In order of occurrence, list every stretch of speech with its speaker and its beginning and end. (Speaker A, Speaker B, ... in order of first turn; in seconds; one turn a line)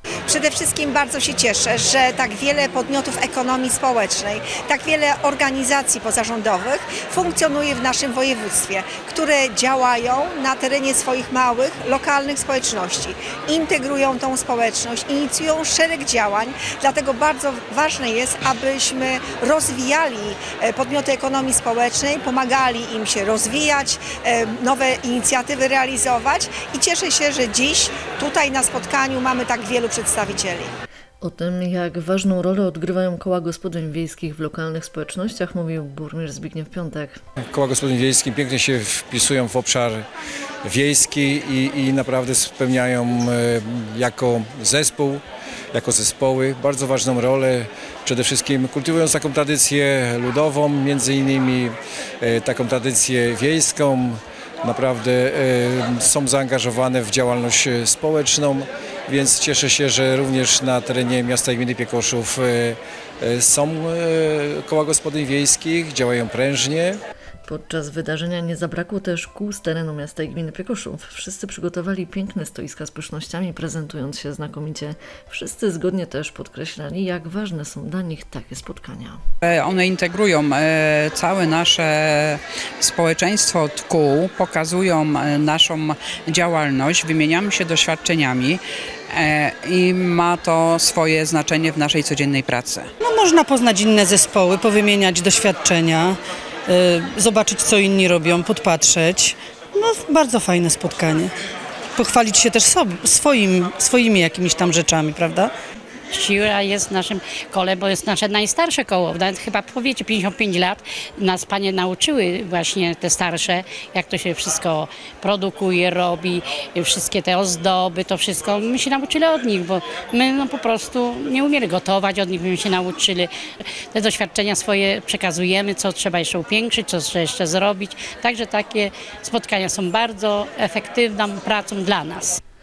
Speaker A: 0.3-30.7
Speaker B: 31.2-37.2
Speaker C: 37.5-40.0
Speaker C: 40.6-67.0
Speaker B: 67.5-79.2
Speaker D: 79.4-92.9
Speaker E: 93.0-101.3
Speaker E: 102.0-105.5
Speaker F: 106.1-123.3
Speaker F: 123.9-132.4